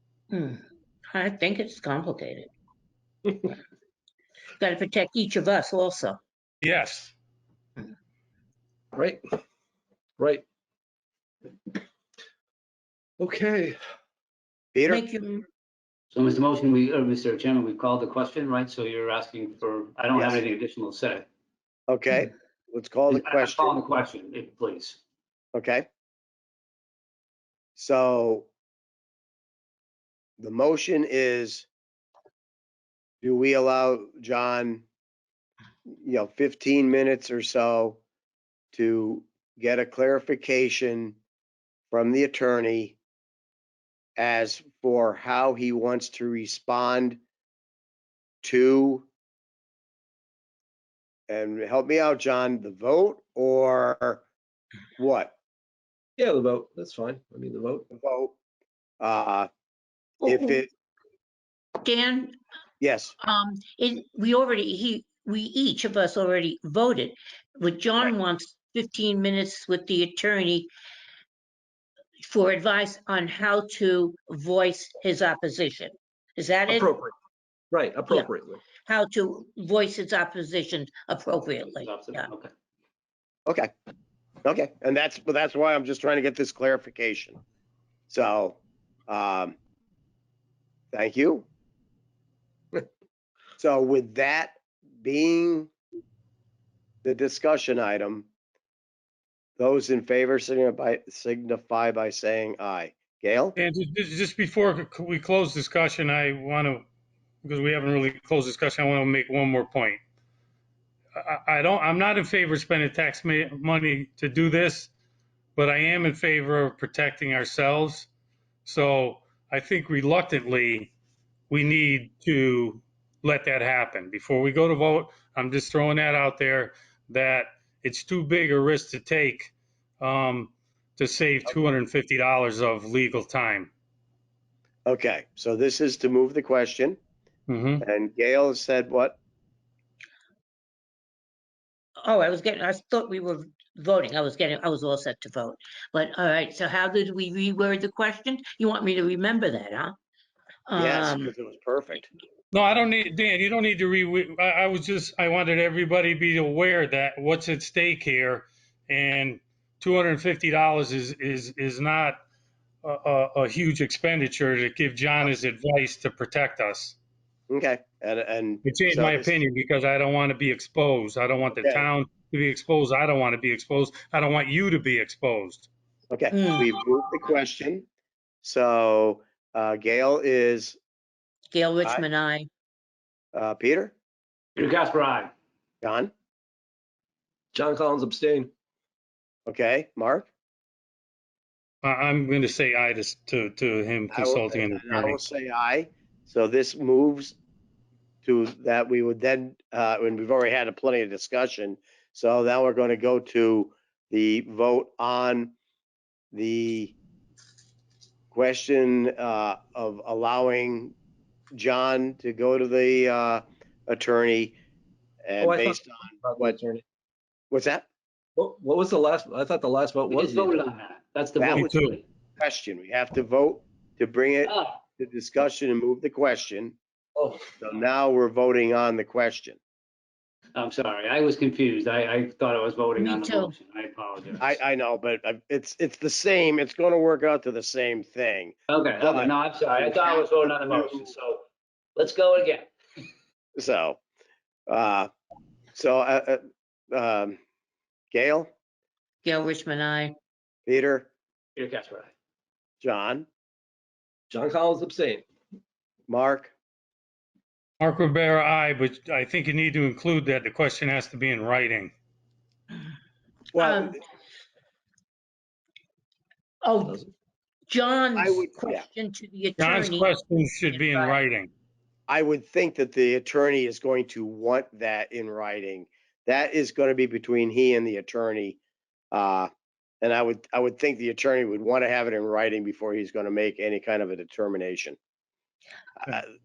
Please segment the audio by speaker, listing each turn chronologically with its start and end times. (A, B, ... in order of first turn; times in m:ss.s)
0:00.3-0:00.6 A
0:01.1-0:02.5 A
0:04.6-0:06.2 A
0:06.6-0:07.1 B
0:08.9-0:09.2 C
0:10.2-0:10.4 C
0:13.2-0:13.8 C
0:14.7-0:15.0 D
0:14.9-0:15.4 A
0:16.1-0:21.2 E
0:20.1-0:20.4 D
0:21.9-0:23.8 D
0:23.1-0:25.0 E
0:25.5-0:25.9 D
0:27.8-0:28.5 D
0:30.4-0:31.7 D
0:33.2-0:34.8 D
0:35.9-0:38.0 D
0:38.7-0:41.2 D
0:41.9-0:43.0 D
0:44.2-0:47.2 D
0:48.4-0:49.1 D
0:51.3-0:54.2 D
0:55.0-0:55.3 D
0:56.2-0:57.8 C
0:57.9-0:58.4 D
0:59.0-0:59.5 D
1:00.2-1:00.6 A
1:00.2-1:00.7 D
1:01.8-1:02.4 A
1:02.8-1:03.1 D
1:03.2-1:10.7 A
1:12.2-1:16.9 A
1:16.7-1:17.1 C
1:17.7-1:18.6 C
1:18.8-1:22.3 A
1:21.8-1:22.5 E
1:24.4-1:27.4 D
1:28.1-1:29.6 D
1:30.9-1:31.5 D
1:33.6-1:35.7 D
1:37.0-1:38.3 D
1:39.6-1:43.6 D
1:43.6-1:46.8 B
1:47.4-1:50.0 B
1:51.2-1:54.9 B
1:55.6-1:58.1 B
1:58.6-2:00.9 B
2:01.5-2:13.7 B
2:14.8-2:17.0 D
2:17.5-2:17.8 B
2:17.8-2:19.2 D
2:22.0-2:29.9 A
2:30.7-2:31.3 A
2:30.8-2:32.1 D
2:32.5-2:42.2 B
2:42.8-2:47.0 B
2:47.5-2:49.4 D
2:48.6-2:55.7 B
2:51.5-2:51.9 D
2:56.1-2:57.8 D
2:56.3-2:56.8 A
2:58.4-3:00.8 D
3:01.5-3:02.5 A
3:03.3-3:03.9 D
3:04.6-3:05.3 E
3:05.8-3:06.1 D
3:07.5-3:08.5 C
3:09.5-3:10.3 D
3:11.8-3:15.2 B
3:14.1-3:17.4 D
3:18.2-3:25.5 D
3:26.3-3:26.9 D
3:28.3-3:30.9 D
3:31.5-3:34.6 D
3:35.2-3:36.6 D
3:35.4-3:36.8 C
3:37.5-3:37.9 D
3:38.4-3:40.6 C
3:40.1-3:42.0 E
3:41.4-3:41.9 D
3:41.5-3:42.0 B
3:42.4-3:46.8 D
3:44.4-3:44.7 E
3:47.2-3:47.5 C
3:47.6-3:49.6 D
3:50.6-3:54.6 E
3:53.0-3:53.5 A
3:54.4-4:01.1 D
3:58.7-4:01.4 E
4:02.0-4:02.7 E
4:03.6-4:04.0 D
4:04.7-4:05.1 D
4:05.7-4:07.4 D
4:08.1-4:08.5 D
4:09.2-4:10.1 A
4:10.7-4:11.1 D
4:11.6-4:12.1 E
4:12.8-4:13.3 D
4:14.3-4:15.2 C
4:16.1-4:16.5 D
4:17.8-4:21.9 B
4:23.5-4:24.0 D
4:23.6-4:24.0 A
4:26.6-4:27.0 A
4:27.7-4:30.1 A
4:28.2-4:28.8 D
4:29.6-4:31.5 B
4:30.7-4:31.2 A
4:32.1-4:38.6 D
4:39.1-4:39.5 D
4:40.0-4:45.0 D
4:46.0-4:46.3 D